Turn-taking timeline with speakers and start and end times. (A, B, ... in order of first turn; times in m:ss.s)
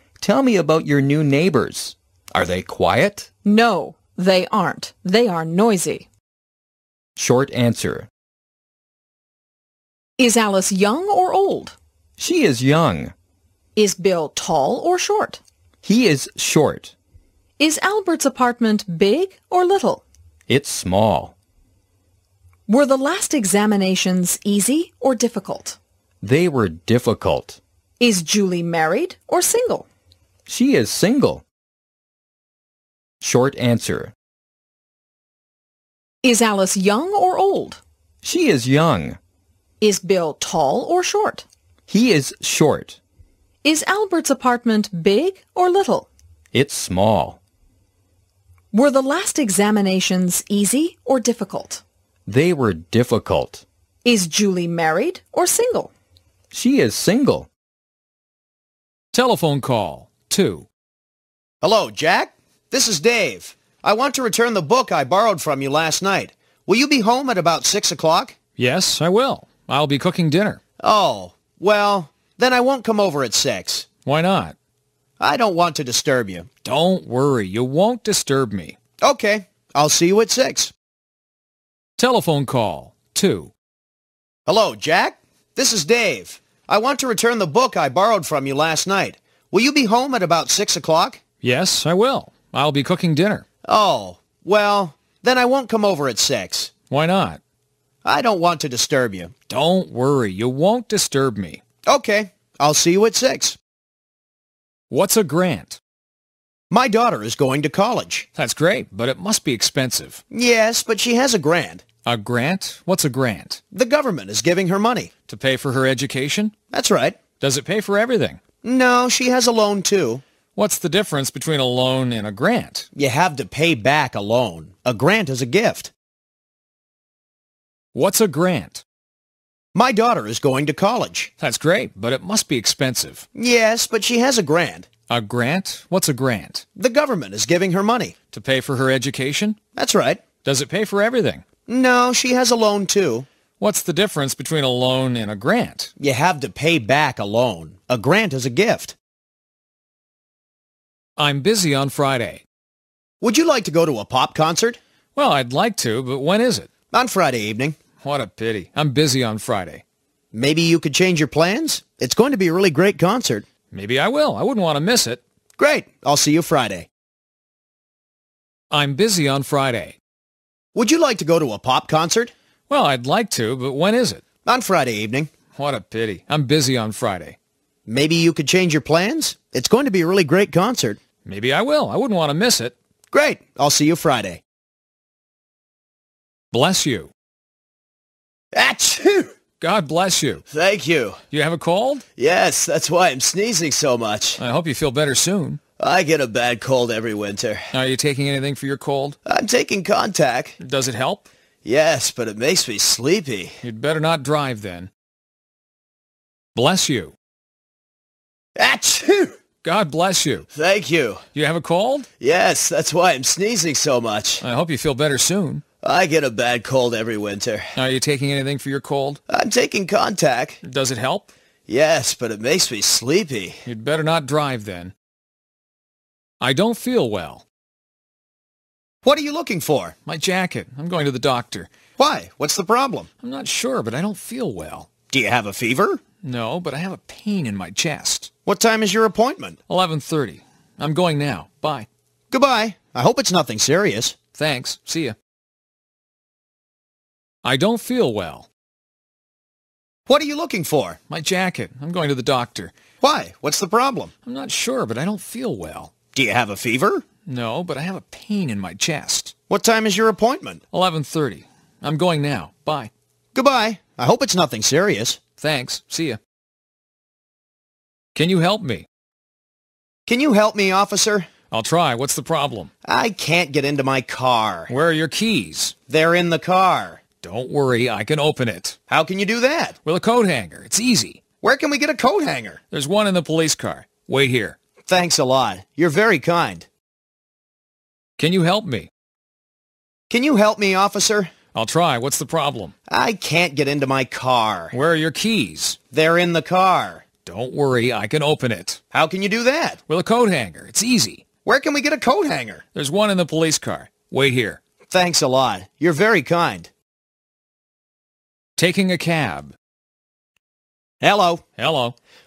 0:00.2-0:03.3 A
0:03.4-0:06.1 B
0:07.2-0:08.1 A
0:10.2-0:11.8 B
0:12.2-0:13.1 A
0:13.8-0:15.4 B
0:15.8-0:16.9 A
0:17.6-0:20.0 B
0:20.5-0:21.3 A
0:22.7-0:25.8 B
0:26.2-0:27.6 A
0:28.0-0:29.9 B
0:30.5-0:31.4 A
0:33.2-0:34.1 A
0:36.2-0:37.8 B
0:38.2-0:39.2 A
0:39.8-0:41.4 B
0:41.9-0:43.0 A
0:43.6-0:46.1 B
0:46.5-0:47.4 A
0:48.7-0:51.8 B
0:52.3-0:53.6 A
0:54.0-0:55.9 B
0:56.5-0:57.5 A
0:59.1-1:00.7 C
1:01.6-1:08.4 D
1:08.6-1:10.6 C
1:10.8-1:13.9 D
1:14.0-1:14.6 C
1:15.2-1:16.5 D
1:16.6-1:18.8 C
1:19.0-1:20.7 D
1:22.0-1:23.5 C
1:24.5-1:31.2 D
1:31.4-1:33.4 C
1:33.7-1:36.7 D
1:36.9-1:37.4 C
1:38.0-1:39.3 D
1:39.5-1:41.6 C
1:41.9-1:43.6 D
1:44.9-1:45.8 C
1:46.7-1:48.3 D
1:48.4-1:50.2 C
1:50.3-1:51.8 D
1:52.0-1:53.6 C
1:53.7-1:55.1 D
1:55.3-1:56.5 C
1:56.7-1:57.2 D
1:57.4-1:58.4 C
1:58.6-2:00.2 D
2:00.6-2:02.9 C
2:03.0-2:05.9 D
2:08.0-2:08.8 C
2:09.8-2:11.3 D
2:11.4-2:13.2 C
2:13.4-2:14.9 D
2:15.1-2:16.6 C
2:16.8-2:18.2 D
2:18.3-2:19.6 C
2:19.8-2:20.2 D
2:20.4-2:21.4 C
2:21.7-2:23.3 D
2:23.6-2:25.9 C
2:26.0-2:29.0 D
2:31.2-2:32.4 C
2:33.2-2:34.8 D
2:35.2-2:36.7 C
2:36.9-2:37.8 D
2:38.0-2:39.8 C
2:40.3-2:43.4 D
2:43.7-2:45.2 C
2:45.6-2:46.9 D
2:48.7-2:50.0 C
2:50.8-2:52.3 D
2:52.7-2:54.2 C
2:54.4-2:55.3 D
2:55.6-2:57.4 C
2:57.9-3:01.0 D
3:01.2-3:02.8 C
3:03.1-3:04.4 D
3:06.5-3:07.1 C
3:08.5-3:09.3 D
3:09.6-3:10.4 C
3:10.5-3:11.2 D
3:11.3-3:12.0 C
3:12.2-3:14.4 D
3:14.4-3:15.6 C
3:15.8-3:17.7 D
3:17.7-3:19.2 C
3:19.3-3:20.6 D
3:20.6-3:21.3 C
3:21.6-3:23.6 D
3:23.6-3:24.9 C
3:26.6-3:27.1 C
3:28.6-3:29.3 D
3:29.6-3:30.5 C
3:30.5-3:31.2 D
3:31.4-3:32.1 C
3:32.2-3:34.4 D
3:34.4-3:35.6 C
3:35.8-3:37.7 D
3:37.8-3:39.2 C
3:39.3-3:40.6 D
3:40.6-3:41.3 C
3:41.7-3:43.6 D
3:43.6-3:44.9 C
3:46.4-3:47.4 C
3:49.0-3:49.9 D
3:50.1-3:51.7 C
3:52.0-3:53.1 D
3:53.2-3:54.9 C
3:55.1-3:56.0 D
3:56.2-3:58.3 C
3:58.5-3:59.6 D
3:59.7-4:01.9 C
4:02.3-4:04.2 D
4:04.4-4:05.2 C
4:07.4-4:08.5 C
4:10.1-4:11.0 D
4:11.1-4:12.7 C
4:13.0-4:14.1 D
4:14.3-4:15.9 C
4:16.2-4:17.0 D
4:17.3-4:19.3 C
4:19.5-4:20.6 D
4:20.7-4:22.9 C
4:23.4-4:25.2 D
4:25.4-4:26.2 C
4:28.2-4:28.9 C
4:30.1-4:31.3 D
4:31.5-4:32.7 C
4:32.8-4:34.7 D
4:34.7-4:35.8 C
4:35.9-4:37.0 D
4:37.2-4:38.8 C
4:38.9-4:39.8 D
4:39.8-4:41.2 C
4:41.4-4:42.6 D
4:42.7-4:44.6 C
4:44.9-4:46.7 D
4:48.2-4:48.9 C
4:50.1-4:51.3 D
4:51.5-4:52.7 C
4:52.9-4:54.7 D
4:54.7-4:55.8 C
4:55.9-4:57.0 D
4:57.2-4:58.8 C
4:58.9-4:59.8 D
4:59.9-5:01.2 C
5:01.4-5:02.6 D
5:02.8-5:04.6 C
5:04.9-5:06.7 D
5:08.6-5:09.5 C
5:11.0-5:11.4 D
5:11.6-5:12.0 C